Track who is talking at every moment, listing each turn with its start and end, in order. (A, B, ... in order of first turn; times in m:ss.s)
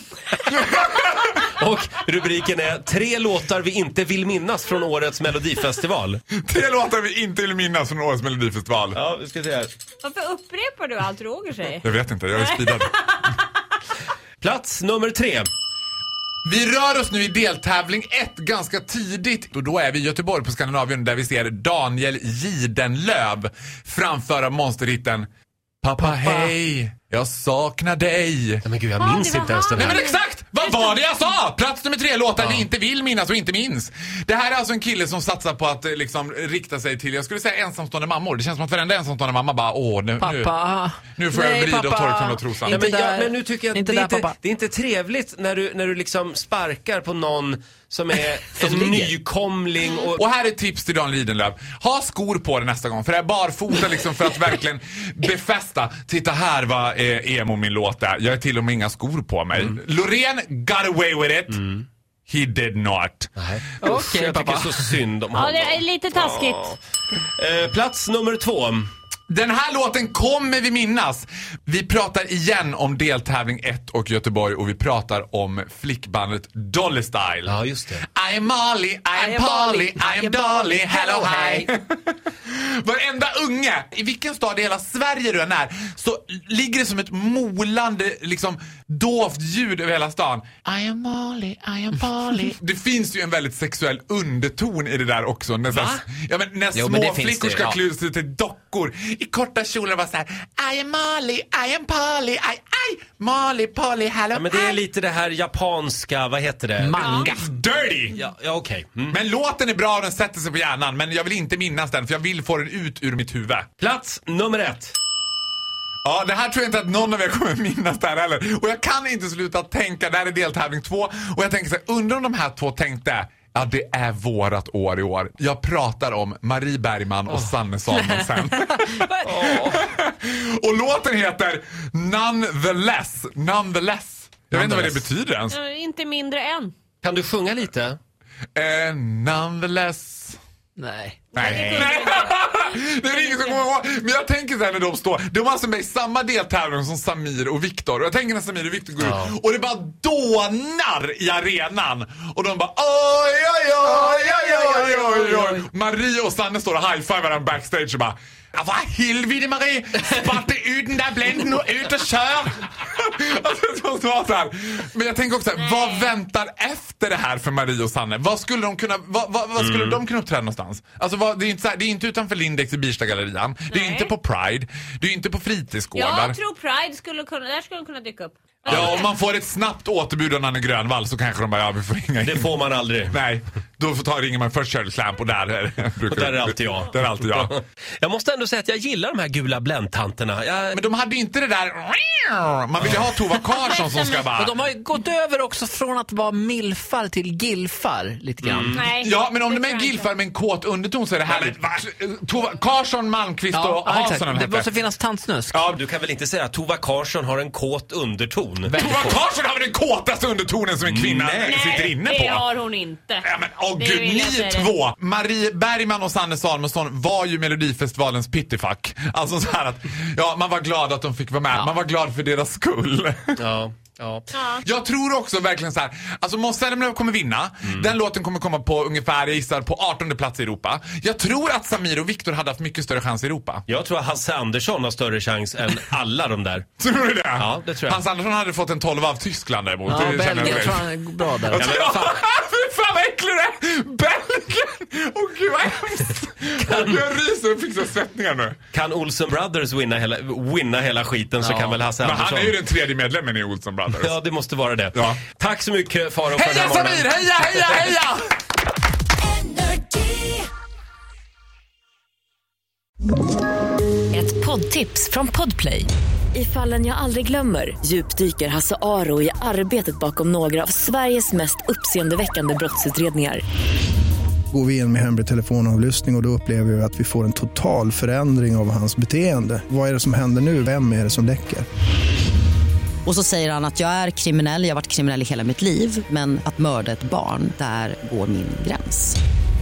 0:00.3-0:01.4 A
0:01.4-0:06.2 B
0:06.4-0:09.0 A
0:08.9-0:09.7 B
0:10.0-0:13.2 C
0:11.8-0:13.1 A
0:14.4-0:15.5 B
0:16.4-0:25.3 A
0:25.8-0:28.6 A
0:26.0-0:26.5 D
0:28.6-0:30.1 B
0:29.0-0:30.2 C
0:29.8-0:40.5 A
0:32.4-0:32.7 B
0:40.2-0:44.4 D
0:41.1-0:42.8 A
0:42.7-0:50.2 B
0:48.5-0:49.1 D
0:50.2-1:01.6 A
1:01.5-1:01.8 B
1:02.3-1:03.3 A
1:03.4-1:06.8 B
1:03.8-1:05.0 D
1:05.3-1:06.8 C
1:07.4-1:08.9 B
1:09.3-1:44.8 A
1:17.5-1:18.0 B
1:19.1-1:21.7 D
1:35.7-1:36.0 B
1:36.8-1:37.8 D
1:44.3-1:47.2 B
1:46.8-1:47.2 D
1:47.0-1:47.3 C
1:47.0-1:48.2 A
1:48.1-1:49.2 B
1:49.1-1:53.7 A
1:53.8-1:55.0 B
1:56.0-2:15.6 A
2:08.6-2:09.1 D
2:09.2-2:09.8 B
2:14.5-2:15.0 D
2:15.5-2:16.7 C
2:17.0-2:18.0 B
2:18.6-2:20.4 A
2:20.8-2:21.3 D
2:21.3-2:56.4 A
2:21.3-2:23.6 C
2:29.0-2:29.3 B
2:34.2-2:35.4 D
2:45.6-2:46.1 C
2:49.6-2:50.0 B
2:53.7-2:54.1 C
2:56.0-2:59.1 C
2:58.7-2:59.0 B
2:58.7-3:02.5 A
3:02.2-3:03.2 B
3:03.1-3:07.6 A
3:06.1-3:10.8 B
3:10.7-3:14.6 A
3:13.5-3:14.2 C
3:14.3-3:18.8 D
3:18.4-3:18.9 B
3:18.7-3:20.1 C
3:18.9-3:24.8 A
3:23.5-3:25.5 D
3:25.5-3:25.8 A
3:25.7-3:29.1 B
3:28.7-3:29.0 D
3:28.8-3:32.5 A
3:30.8-3:31.9 B
3:31.4-3:33.3 C
3:33.2-3:43.4 A
3:33.8-3:34.7 C
3:43.4-3:44.3 B
3:44.3-3:44.6 C
3:44.6-3:53.6 A
3:47.6-3:47.9 B
3:53.7-3:56.7 B
3:56.8-4:08.6 A
3:57.4-3:58.0 B
3:59.9-4:02.2 D
4:01.6-4:02.0 B
4:06.6-4:07.0 B
4:08.7-4:12.6 B
4:11.4-4:11.8 D
4:11.9-4:14.2 A
4:13.9-4:17.9 B
4:14.9-4:15.2 A
4:16.3-4:18.2 A
4:19.6-4:20.2 E
4:24.1-4:33.4 E
4:34.5-4:41.6 F
4:43.0-4:49.2 G